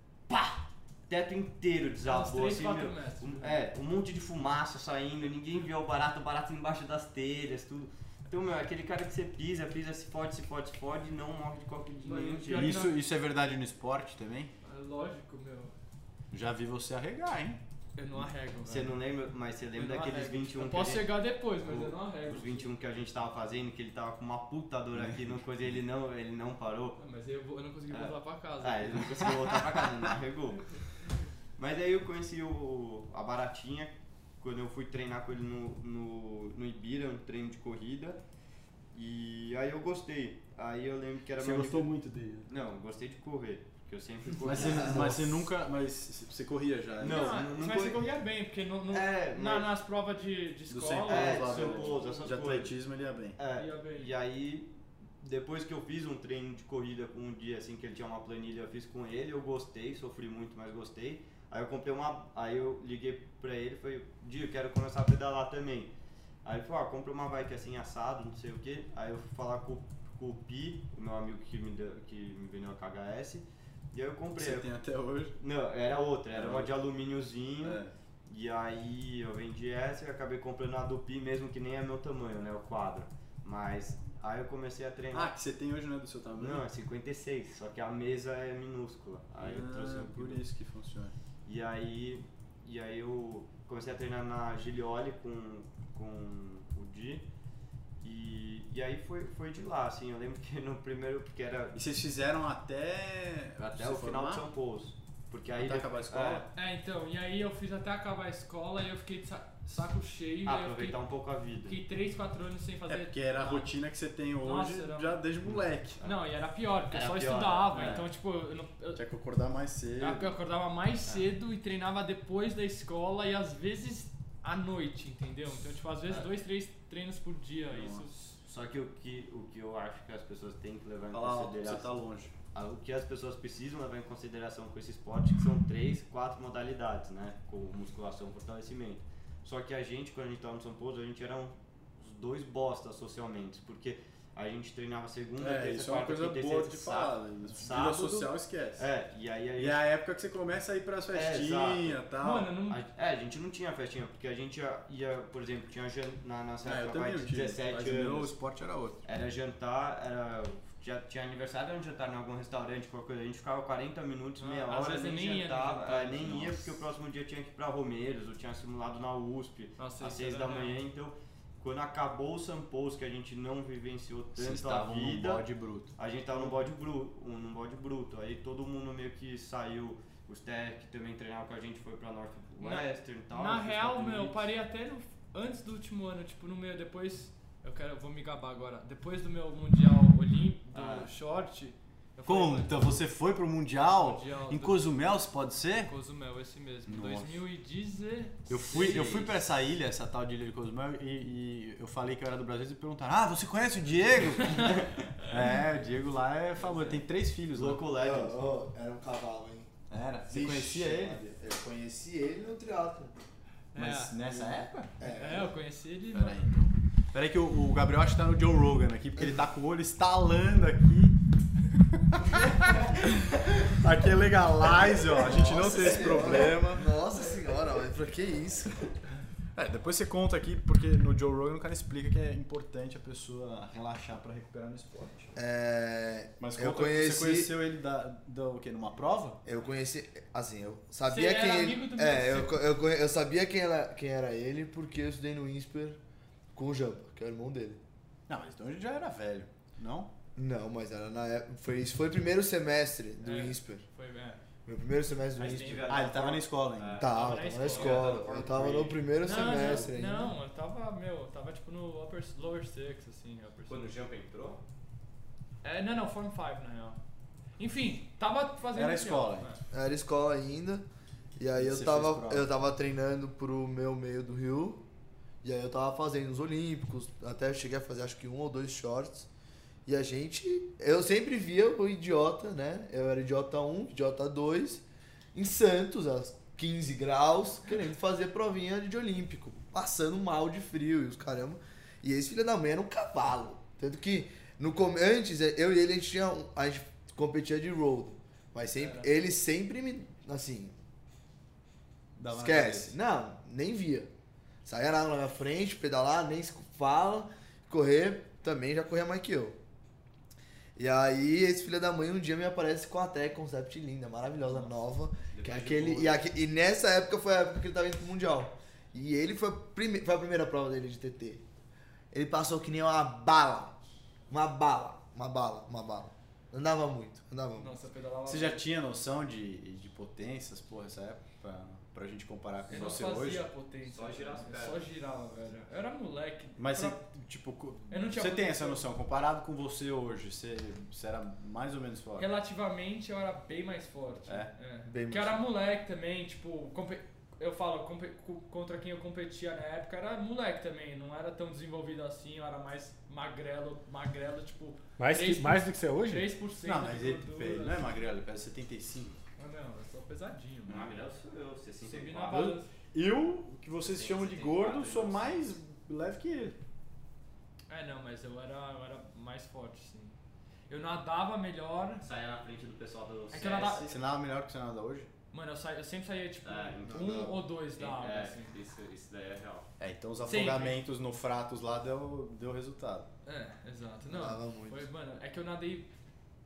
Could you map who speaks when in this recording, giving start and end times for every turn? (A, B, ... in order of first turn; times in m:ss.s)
0:00.3-0:12.9 A
0:02.0-0:03.6 B
0:12.0-0:13.0 B
0:12.5-0:14.5 C
0:14.6-0:15.7 B
0:16.3-0:17.6 C
0:18.0-0:19.0 B
0:18.7-0:27.0 A
0:19.7-0:22.7 B
0:27.0-0:29.2 B
0:27.9-0:30.6 A
0:31.6-0:38.2 A
0:38.9-0:41.9 A
0:41.4-0:42.0 C
0:41.4-0:42.5 D
0:42.5-0:45.4 A
0:44.4-0:47.3 C
0:47.0-0:48.0 A
0:47.0-0:52.2 B
0:48.9-0:49.7 A
0:50.7-0:53.4 C
0:51.1-0:52.8 A
0:53.4-0:54.7 A
0:53.5-0:54.1 B
0:55.2-1:05.9 A
1:06.4-1:14.7 A
1:14.4-1:15.3 C
1:15.4-1:25.3 A
1:16.3-1:16.7 C
1:17.6-1:17.9 C
1:25.1-1:26.6 C
1:26.4-1:30.4 A
1:29.4-1:31.2 C
1:31.5-1:37.2 A
1:38.0-1:41.8 A
1:41.7-1:44.5 C
1:43.6-1:46.5 A
1:45.6-1:46.5 C
1:46.5-1:51.0 B
1:50.5-1:51.8 A
1:51.6-1:53.7 B
1:52.9-1:56.0 C
1:54.4-1:55.2 B
1:55.4-1:56.2 A
1:56.0-1:59.0 B
1:56.9-1:58.1 A
1:57.7-1:58.0 C
1:59.0-2:00.4 C
2:00.0-2:08.1 B
2:07.7-2:08.1 C
2:08.1-2:11.9 A
2:11.1-2:12.3 C
2:12.5-2:29.9 A
2:25.4-2:28.9 C
2:29.6-2:32.5 C
2:31.1-2:32.0 A
2:32.2-2:32.8 B
2:32.7-2:38.3 A
2:36.6-2:39.0 C
2:39.0-2:55.4 A
2:44.4-2:46.6 B
2:46.2-2:46.6 C
2:49.8-2:50.8 B
2:54.4-2:55.9 C
2:56.0-3:04.5 A
3:02.6-3:12.9 B
3:10.7-3:11.1 A
3:12.2-3:15.9 C
3:13.9-3:14.9 B
3:15.8-3:19.2 B
3:16.9-3:17.4 C
3:18.5-3:27.8 C
3:18.7-3:19.3 A
3:24.3-3:24.9 A
3:26.7-3:28.5 A
3:28.0-3:29.7 E
3:29.9-3:31.3 C
3:30.3-3:33.1 E
3:33.7-3:34.2 B
3:33.8-3:34.9 C
3:34.2-3:35.5 E
3:35.0-3:36.4 B
3:36.1-3:41.2 C
3:43.6-3:46.9 C
3:45.1-3:48.9 E
3:49.6-3:55.3 C
3:55.4-3:57.5 E
3:56.4-3:59.4 C
3:59.4-4:06.0 E
4:01.1-4:02.6 B
4:06.5-4:07.8 E
4:08.3-4:10.1 C
4:10.4-4:13.8 E
4:13.2-4:14.4 B
4:14.7-4:15.9 E
4:15.4-4:19.9 A
4:15.9-4:17.0 C
4:17.0-4:20.4 E
4:17.1-4:18.2 B
4:18.2-4:18.9 C
4:19.2-4:23.9 B
4:23.7-4:24.6 A
4:25.6-4:27.0 B
4:27.6-4:29.6 B
4:28.8-4:29.5 C
4:29.7-4:30.8 E
4:31.4-4:34.8 E
4:31.6-4:32.5 C
4:35.4-4:39.3 E
4:39.9-5:00.8 E
4:58.8-4:59.1 B
5:02.2-5:02.9 C
5:02.3-5:04.1 E
5:04.6-5:09.6 E
5:10.8-5:21.4 E
5:15.3-5:16.2 A
5:22.1-5:23.8 E
5:24.3-5:27.8 E
5:27.6-5:28.6 B
5:28.3-5:33.5 C
5:32.7-5:37.0 B
5:33.9-5:34.9 A
5:36.6-5:42.3 C
5:37.9-5:38.8 B
5:42.2-5:57.9 B
5:44.9-5:45.4 E
5:55.0-5:56.3 D
5:56.5-5:59.2 C
5:59.4-6:00.9 B
6:00.7-6:02.5 A
6:01.8-6:02.7 B
6:02.3-6:06.6 C
6:03.8-6:05.6 A
6:07.7-6:10.2 B
6:10.7-6:12.0 B
6:12.0-6:13.9 A
6:13.3-6:14.0 B
6:13.6-6:15.1 C
6:15.3-6:18.6 B
6:16.4-6:19.7 A
6:16.8-6:17.2 E
6:19.8-6:23.1 C
6:20.2-6:20.8 B
6:23.2-6:25.9 B
6:24.1-6:24.9 E